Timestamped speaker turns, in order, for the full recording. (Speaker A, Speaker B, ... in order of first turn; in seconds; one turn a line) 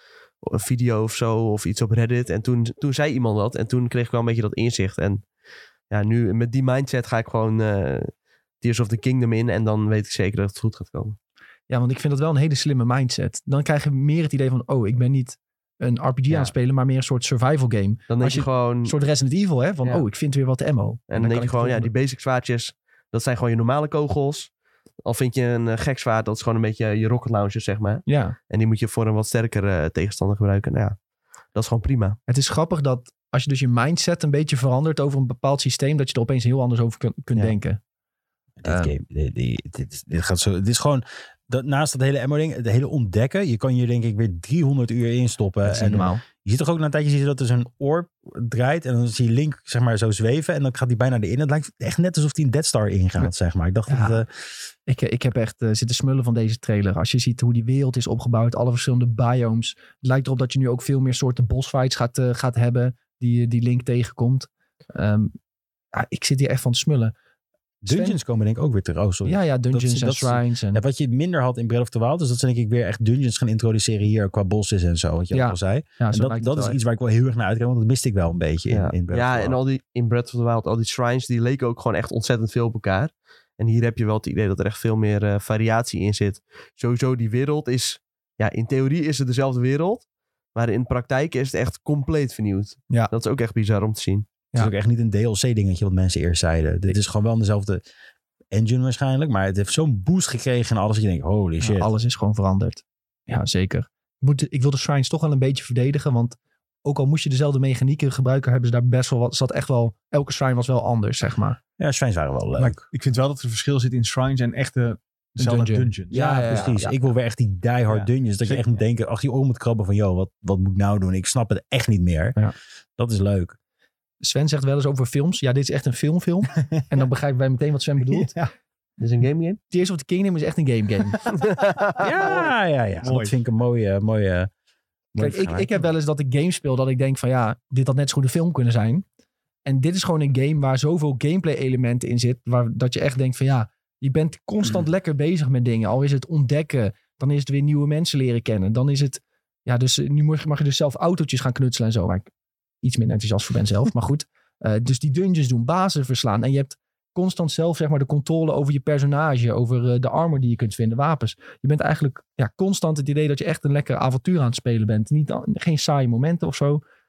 Speaker A: 0.4-5.2
Speaker A: 5.9-11.2
Speaker B: 11.7-21.9
Speaker A: 18.1-18.9
Speaker A: 21.1-24.5
Speaker A: 25.0-31.0
Speaker B: 28.1-28.4
Speaker A: 31.5-32.2
Speaker B: 32.3-37.8
Speaker C: 38.6-54.3
Speaker B: 38.6-38.9
Speaker B: 45.6-46.2
Speaker B: 53.9-54.2
Speaker B: 54.9-65.3
Speaker B: 65.9-67.1
Speaker C: 67.8-79.6
Speaker B: 67.9-68.2
Speaker B: 69.2-70.8
Speaker B: 75.3-76.8
Speaker A: 78.7-94.3
Speaker C: 94.5-97.8
Speaker C: 98.5-101.9
Speaker B: 101.6-111.6
Speaker C: 111.8-112.8
Speaker D: 112.6-116.6
Speaker B: 115.4-117.0
Speaker C: 116.1-122.4
Speaker D: 117.9-118.8
Speaker C: 123.0-123.6
Speaker B: 124.2-128.3
Speaker D: 128.0-128.5
Speaker A: 129.0-129.6
Speaker B: 129.7-131.3
Speaker A: 131.4-132.1
Speaker C: 132.0-134.5
Speaker D: 133.0-133.3
Speaker C: 135.1-135.7
Speaker B: 135.2-139.0
Speaker B: 139.7-152.3
Speaker B: 152.8-166.8